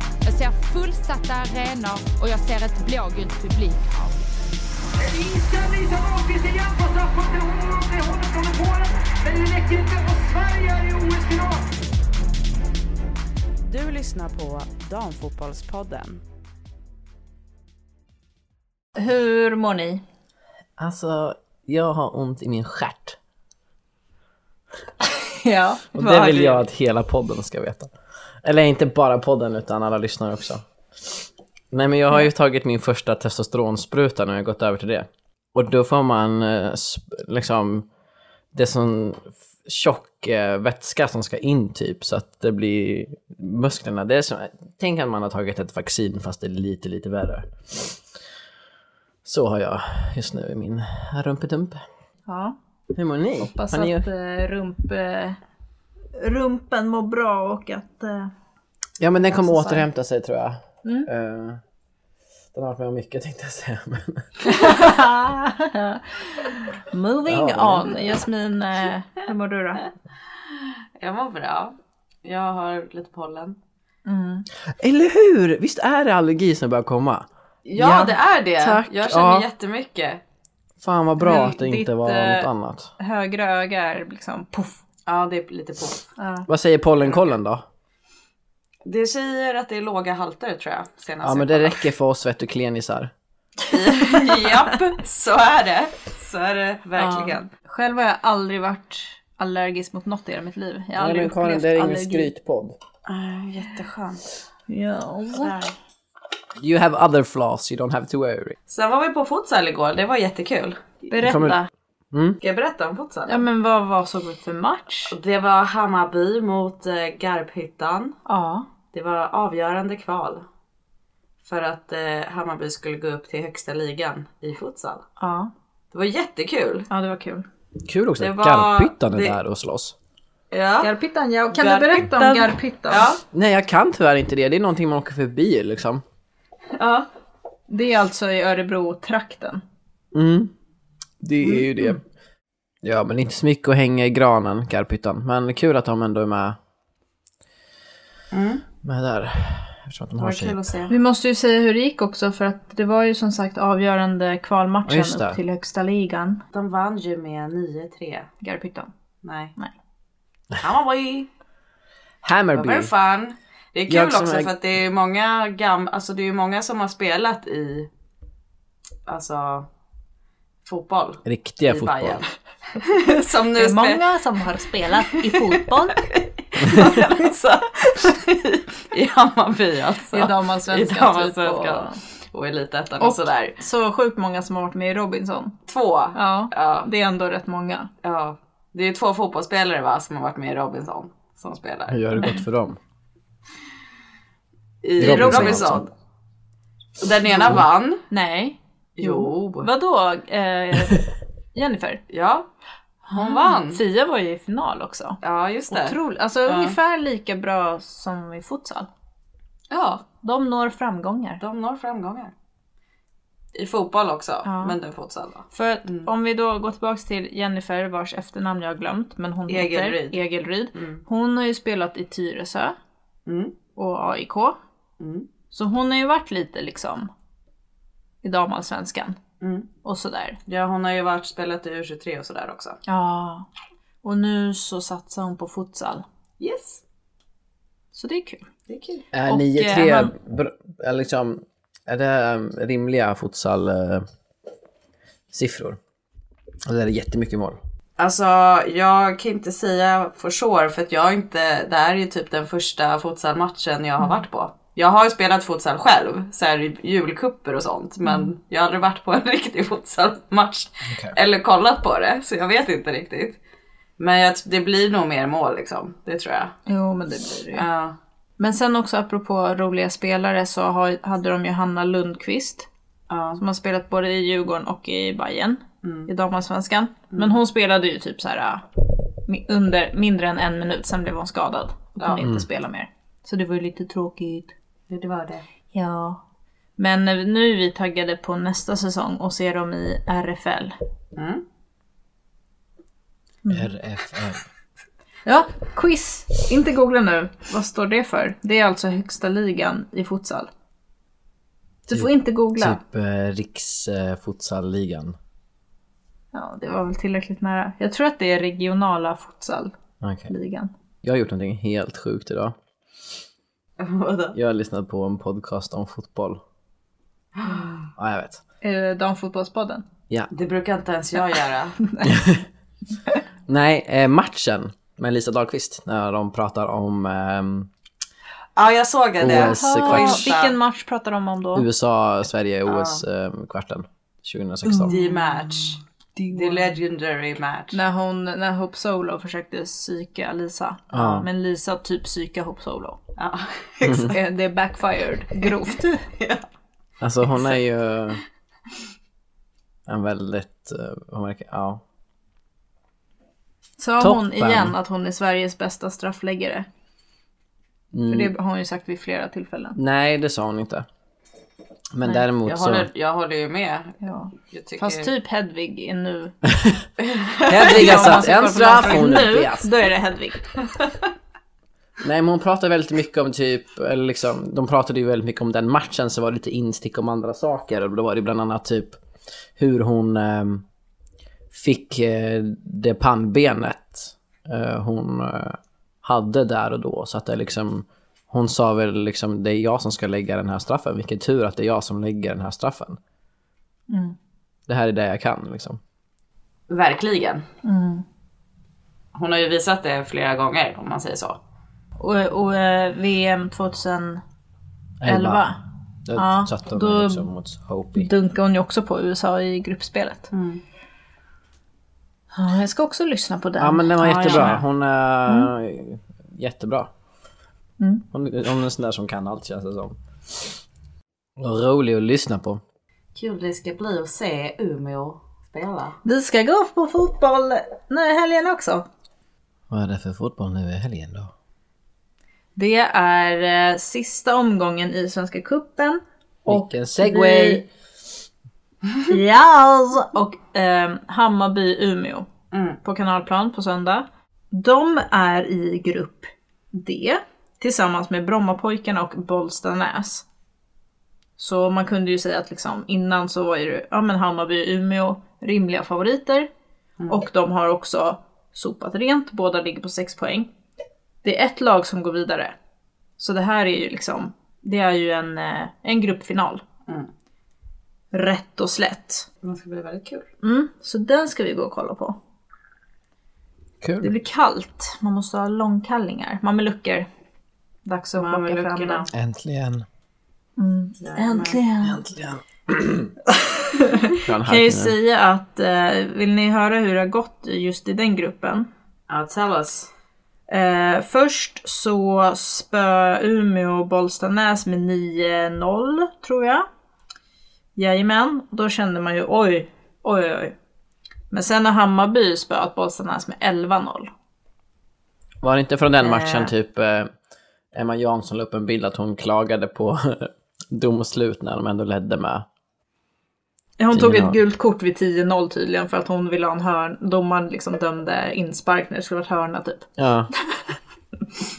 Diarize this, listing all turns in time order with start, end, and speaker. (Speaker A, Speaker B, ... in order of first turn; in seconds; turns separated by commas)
Speaker A: 0.2-4.1, Speaker B: 5.0-11.7, Speaker C: 13.7-16.2, Speaker D: 18.9-20.0, Speaker E: 20.8-23.2, Speaker D: 25.0-26.6, Speaker E: 25.9-27.9, Speaker E: 28.4-37.9, Speaker E: 38.5-48.0, Speaker E: 49.2-51.8, Speaker D: 52.2-52.5, Speaker E: 52.9-54.0, Speaker D: 53.5-55.4, Speaker D: 56.1-58.3, Speaker E: 59.0-61.6, Speaker D: 59.2-59.9, Speaker D: 60.8-61.1, Speaker E: 62.5-64.3, Speaker D: 64.4-69.8, Speaker E: 67.2-68.0, Speaker C: 70.5-73.6, Speaker D: 74.0-74.5, Speaker E: 74.7-79.5, Speaker C: 77.7-80.2, Speaker E: 80.8-82.9, Speaker D: 81.2-84.8, Speaker C: 85.1-86.0, Speaker D: 86.2-86.5, Speaker E: 86.5-87.6, Speaker C: 88.8-91.8, Speaker E: 91.2-93.1, Speaker C: 93.7-97.5, Speaker D: 93.7-94.6, Speaker D: 97.0-102.3, Speaker E: 101.0-102.8, Speaker C: 103.0-104.2, Speaker D: 104.7-105.5, Speaker C: 105.3-105.7, Speaker E: 106.6-108.5, Speaker C: 108.7-110.8, Speaker D: 111.0-111.7, Speaker E: 111.2-111.6, Speaker E: 112.1-112.4, Speaker C: 112.4-113.4, Speaker D: 113.3-115.1, Speaker C: 115.1-118.2, Speaker D: 118.3-118.7, Speaker C: 118.9-120.5, Speaker C: 121.4-125.0, Speaker D: 125.2-125.5, Speaker C: 125.9-126.9, Speaker D: 126.9-127.5, Speaker E: 127.8-129.9, Speaker C: 128.2-129.3, Speaker C: 130.5-130.9, Speaker D: 130.8-133.1, Speaker C: 131.5-133.2, Speaker E: 133.3-136.0, Speaker C: 136.8-137.1, Speaker D: 137.7-139.6, Speaker E: 140.1-140.5, Speaker E: 141.2-142.0, Speaker D: 141.4-141.9, Speaker E: 142.8-146.6, Speaker C: 148.3-148.6, Speaker E: 148.8-150.6, Speaker C: 150.2-150.9, Speaker D: 150.9-156.4, Speaker E: 154.8-155.4, Speaker C: 156.5-158.3, Speaker D: 158.4-158.9, Speaker C: 159.2-159.5, Speaker C: 160.6-161.3, Speaker E: 162.2-162.9, Speaker C: 162.5-167.9, Speaker E: 163.9-164.5, Speaker C: 169.1-169.7, Speaker C: 170.6-174.0, Speaker E: 171.2-172.2, Speaker D: 173.6-176.0, Speaker C: 175.2-183.6, Speaker E: 176.6-177.0, Speaker D: 180.1-182.0, Speaker D: 183.0-185.5, Speaker C: 185.7-186.9, Speaker D: 186.1-187.9, Speaker C: 188.0-192.3, Speaker E: 191.9-192.8, Speaker D: 192.2-192.4, Speaker C: 194.8-195.9, Speaker D: 195.0-195.7, Speaker E: 195.0-195.9, Speaker C: 197.0-198.0, Speaker D: 198.1-202.0, Speaker C: 199.0-199.7, Speaker C: 202.1-202.5, Speaker D: 203.1-205.2, Speaker C: 203.1-203.8, Speaker C: 205.2-206.8, Speaker D: 205.7-208.9, Speaker C: 209.7-210.0, Speaker D: 210.2-211.4, Speaker C: 211.4-212.3, Speaker C: 213.5-216.1, Speaker D: 214.4-214.8, Speaker D: 215.5-222.8, Speaker C: 219.5-220.2, Speaker C: 220.7-221.0, Speaker C: 223.3-223.5, Speaker D: 223.8-224.6, Speaker C: 225.0-225.2, Speaker D: 225.5-227.1, Speaker D: 228.2-229.2, Speaker C: 229.4-229.7, Speaker D: 229.8-230.4, Speaker C: 230.5-232.8, Speaker D: 232.8-233.5, Speaker D: 234.0-236.0, Speaker C: 236.4-236.8, Speaker D: 237.9-238.4, Speaker C: 238.7-239.1, Speaker E: 239.1-244.1, Speaker D: 239.2-240.1, Speaker E: 245.3-245.8, Speaker E: 246.6-247.6, Speaker C: 248.0-263.4, Speaker E: 260.9-261.1, Speaker C: 264.0-266.5, Speaker D: 266.7-267.6, Speaker C: 267.5-267.9, Speaker D: 268.4-272.7, Speaker C: 273.1-273.4, Speaker D: 273.4-278.6, Speaker C: 275.8-276.1, Speaker D: 279.2-284.5, Speaker C: 282.0-282.2, Speaker C: 284.9-285.4, Speaker D: 285.7-286.2, Speaker D: 286.8-290.8, Speaker C: 291.1-291.4, Speaker E: 293.5-294.4, Speaker D: 295.2-300.5, Speaker D: 301.9-302.8, Speaker E: 301.9-305.1, Speaker D: 306.3-309.7, Speaker E: 310.0-310.3, Speaker D: 310.3-310.7, Speaker E: 311.0-312.6, Speaker C: 313.8-314.4, Speaker E: 314.3-316.4, Speaker C: 317.4-317.7, Speaker D: 317.4-317.9, Speaker E: 317.9-318.4, Speaker D: 318.6-319.8, Speaker C: 320.3-321.8, Speaker D: 321.8-322.2, Speaker E: 322.0-322.5, Speaker E: 323.5-327.7, Speaker C: 328.6-330.5, Speaker E: 329.2-330.3, Speaker D: 329.3-331.6, Speaker E: 331.5-335.0, Speaker C: 332.7-333.0, Speaker D: 334.6-336.7, Speaker C: 334.9-335.8, Speaker C: 336.3-337.8, Speaker D: 337.7-343.0, Speaker E: 340.9-341.3, Speaker C: 343.2-344.2, Speaker E: 343.8-344.1, Speaker D: 343.9-346.0, Speaker C: 345.4-346.4, Speaker E: 347.0-348.2, Speaker E: 349.9-351.8, Speaker D: 353.8-356.6, Speaker E: 354.0-354.7, Speaker E: 357.9-358.3, Speaker D: 358.1-359.8, Speaker E: 359.8-360.9, Speaker E: 361.9-362.9, Speaker C: 362.4-365.1, Speaker D: 364.0-366.3, Speaker E: 366.4-366.8, Speaker C: 367.0-368.2, Speaker E: 367.5-369.7, Speaker D: 367.5-370.5, Speaker E: 372.0-379.0, Speaker E: 379.6-380.6, Speaker E: 381.5-393.0, Speaker D: 393.9-394.1, Speaker E: 394.7-395.8, Speaker C: 396.7-397.4, Speaker D: 397.6-398.0, Speaker C: 399.1-401.4, Speaker D: 402.0-404.2, Speaker E: 405.0-405.4, Speaker D: 405.0-405.6, Speaker E: 406.1-408.1, Speaker D: 406.1-407.3, Speaker D: 407.9-410.3, Speaker C: 410.3-410.6, Speaker D: 412.3-414.6, Speaker E: 413.6-416.9, Speaker C: 414.3-414.6, Speaker E: 418.1-420.6, Speaker E: 421.4-422.6, Speaker C: 423.1-426.0, Speaker D: 426.0-428.9, Speaker E: 429.7-431.3, Speaker D: 432.6-437.6, Speaker E: 436.5-437.7, Speaker D: 439.1-442.3, Speaker C: 442.5-442.8, Speaker D: 442.8-450.2, Speaker D: 451.4-456.5, Speaker D: 457.1-460.5, Speaker D: 461.2-462.5, Speaker D: 463.2-466.6, Speaker D: 468.1-469.3, Speaker C: 469.4-470.3, Speaker D: 470.4-472.2, Speaker E: 473.8-474.1, Speaker D: 474.0-477.1, Speaker D: 477.9-479.1, Speaker C: 478.2-479.1, Speaker E: 479.1-479.9, Speaker D: 480.6-482.0, Speaker C: 481.0-481.6, Speaker E: 481.8-483.1, Speaker D: 483.3-488.7, Speaker E: 484.2-484.9, Speaker C: 489.1-489.9, Speaker D: 490.5-496.6, Speaker D: 497.8-500.5, Speaker D: 501.3-504.1, Speaker E: 505.4-507.1, Speaker D: 506.0-506.5, Speaker E: 507.7-512.5, Speaker D: 513.8-519.9, Speaker E: 513.9-514.3, Speaker E: 520.0-520.3